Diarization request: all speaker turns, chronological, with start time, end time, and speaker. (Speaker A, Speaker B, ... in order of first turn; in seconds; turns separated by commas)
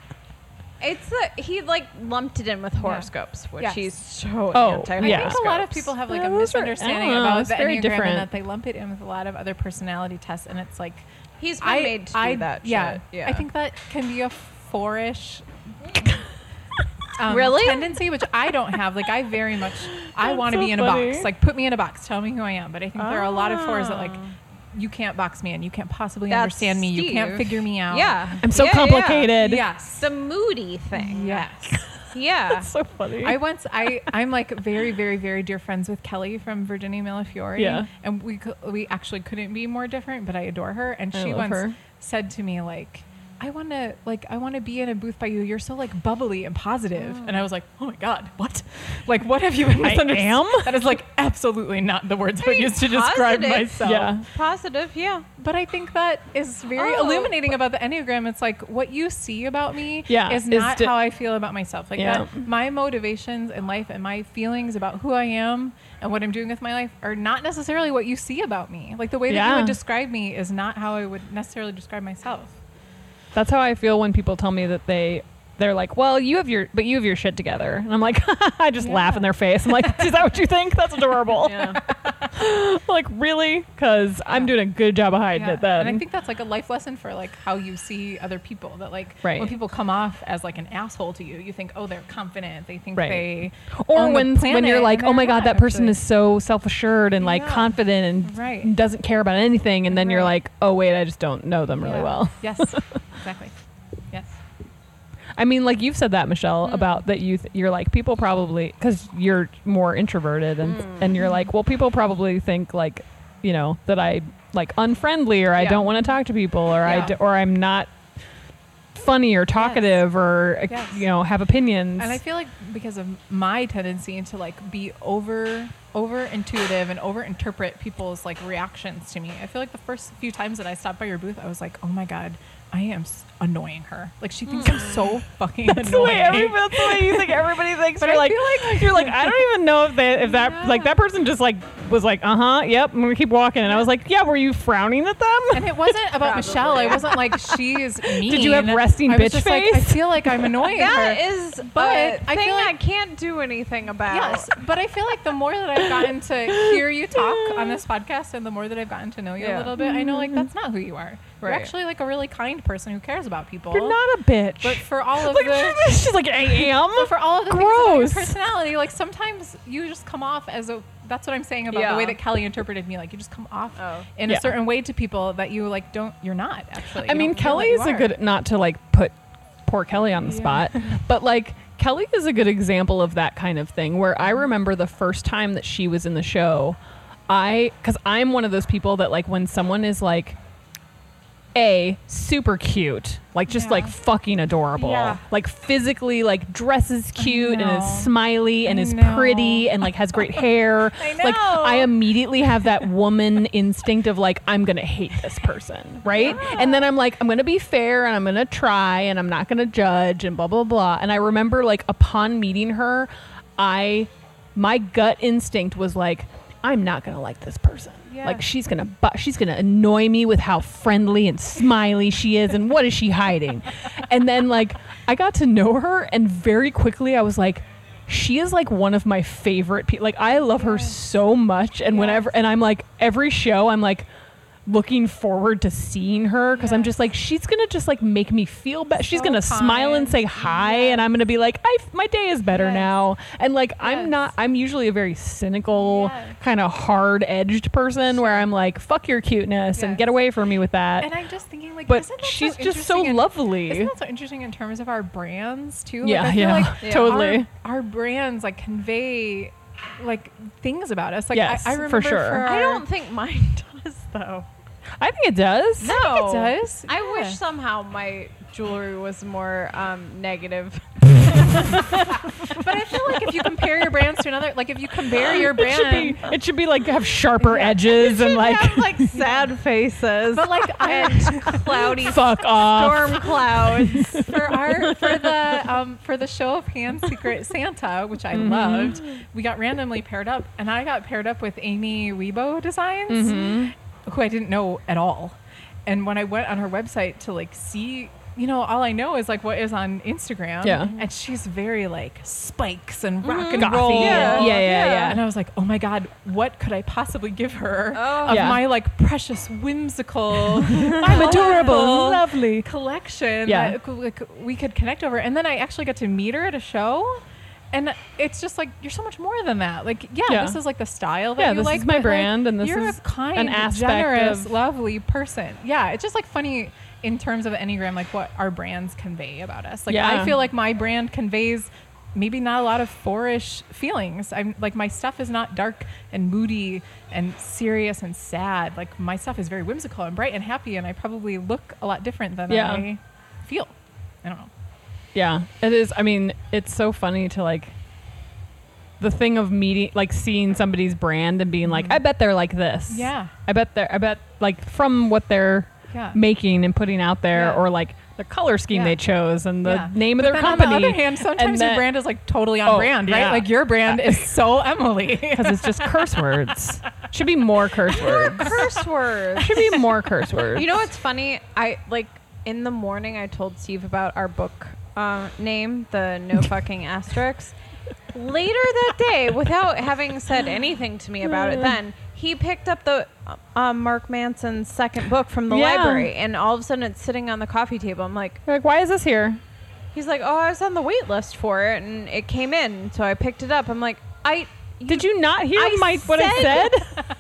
Speaker A: 0.8-5.9, Speaker B: 2.8-3.8, Speaker C: 4.5-8.3, Speaker B: 5.0-11.1, Speaker A: 11.4-13.4, Speaker B: 11.6-16.2, Speaker B: 17.2-24.2, Speaker A: 17.3-18.0, Speaker C: 20.2-21.3, Speaker A: 23.0-24.3, Speaker B: 24.7-28.4, Speaker A: 26.3-29.4, Speaker C: 28.4-29.6, Speaker B: 29.3-30.1, Speaker A: 30.0-31.5, Speaker B: 30.9-31.7, Speaker A: 32.1-32.7, Speaker C: 32.5-33.4, Speaker B: 33.2-54.2, Speaker C: 37.6-37.9, Speaker C: 41.1-41.8, Speaker A: 47.0-47.5, Speaker C: 49.8-50.8, Speaker A: 52.4-55.3, Speaker C: 53.8-54.2, Speaker B: 55.4-72.5, Speaker A: 56.8-57.5, Speaker C: 60.1-60.9, Speaker C: 62.0-62.3, Speaker C: 69.3-69.8, Speaker C: 73.3-86.0, Speaker B: 78.8-79.3, Speaker A: 81.4-81.8, Speaker B: 81.9-82.3, Speaker B: 85.3-96.0, Speaker C: 89.2-89.5, Speaker C: 93.0-102.8, Speaker B: 97.2-98.7, Speaker B: 99.9-100.3, Speaker B: 101.8-103.5, Speaker C: 105.4-117.9, Speaker A: 110.7-111.2, Speaker B: 111.2-111.5, Speaker B: 115.6-116.0, Speaker B: 116.8-117.1, Speaker C: 118.9-122.2, Speaker B: 119.6-120.0, Speaker B: 120.7-121.0, Speaker B: 122.0-139.5, Speaker A: 134.5-135.2, Speaker C: 135.7-145.9, Speaker B: 140.2-141.0, Speaker B: 145.5-152.7, Speaker A: 146.2-147.2, Speaker C: 148.2-150.7, Speaker A: 150.7-154.5, Speaker B: 154.1-164.0, Speaker C: 155.8-157.8, Speaker A: 159.4-159.7, Speaker C: 159.8-160.5, Speaker A: 161.4-161.7, Speaker C: 163.7-168.4, Speaker B: 164.6-178.1, Speaker A: 171.7-172.2, Speaker A: 173.8-174.1, Speaker C: 174.3-174.6, Speaker C: 177.0-186.8, Speaker B: 180.3-180.8, Speaker C: 187.3-190.4, Speaker C: 191.6-234.1, Speaker B: 193.5-193.9, Speaker B: 194.8-195.2, Speaker B: 197.2-198.1, Speaker B: 198.7-199.8, Speaker B: 201.0-201.9, Speaker B: 206.1-206.9, Speaker A: 206.2-206.7, Speaker B: 218.1-218.4, Speaker B: 230.5-231.0, Speaker B: 231.9-232.3, Speaker C: 234.7-251.1, Speaker B: 236.6-237.0, Speaker B: 239.1-241.1, Speaker B: 242.5-242.9, Speaker B: 243.8-244.1, Speaker B: 245.7-246.4, Speaker B: 248.1-248.5, Speaker B: 249.7-250.0, Speaker B: 251.0-262.9, Speaker C: 251.9-253.9, Speaker C: 256.0-257.5, Speaker A: 256.8-257.2, Speaker C: 261.3-262.5, Speaker A: 262.4-264.5, Speaker C: 265.0-266.0, Speaker A: 265.8-271.8, Speaker B: 265.9-267.4, Speaker B: 272.4-276.3, Speaker C: 275.2-279.1, Speaker B: 277.4-277.9, Speaker A: 277.8-284.4, Speaker B: 279.1-279.5, Speaker B: 280.3-282.0, Speaker C: 281.9-284.3, Speaker B: 284.1-317.2, Speaker C: 288.3-289.0, Speaker C: 293.1-293.7, Speaker C: 300.6-301.0, Speaker A: 303.2-305.0, Speaker C: 303.6-305.2, Speaker A: 307.9-308.6, Speaker C: 308.3-308.7, Speaker C: 310.6-312.7, Speaker A: 310.7-311.6, Speaker C: 313.4-313.8, Speaker B: 317.7-344.5, Speaker C: 320.3-320.6, Speaker C: 321.4-324.6, Speaker C: 329.9-330.3, Speaker C: 342.5-342.9, Speaker C: 345.1-347.8, Speaker C: 349.0-362.0, Speaker B: 351.7-352.0, Speaker B: 352.9-353.3, Speaker B: 355.9-356.2, Speaker B: 357.3-357.6, Speaker B: 358.7-359.0, Speaker B: 359.6-365.9, Speaker C: 362.6-364.3, Speaker C: 365.3-368.7, Speaker A: 367.9-369.6, Speaker B: 368.0-368.5, Speaker C: 369.4-370.9, Speaker A: 370.5-377.6, Speaker A: 378.1-388.4, Speaker C: 381.2-381.8, Speaker C: 385.5-386.1, Speaker C: 388.5-389.4, Speaker A: 389.9-396.9, Speaker C: 394.9-397.0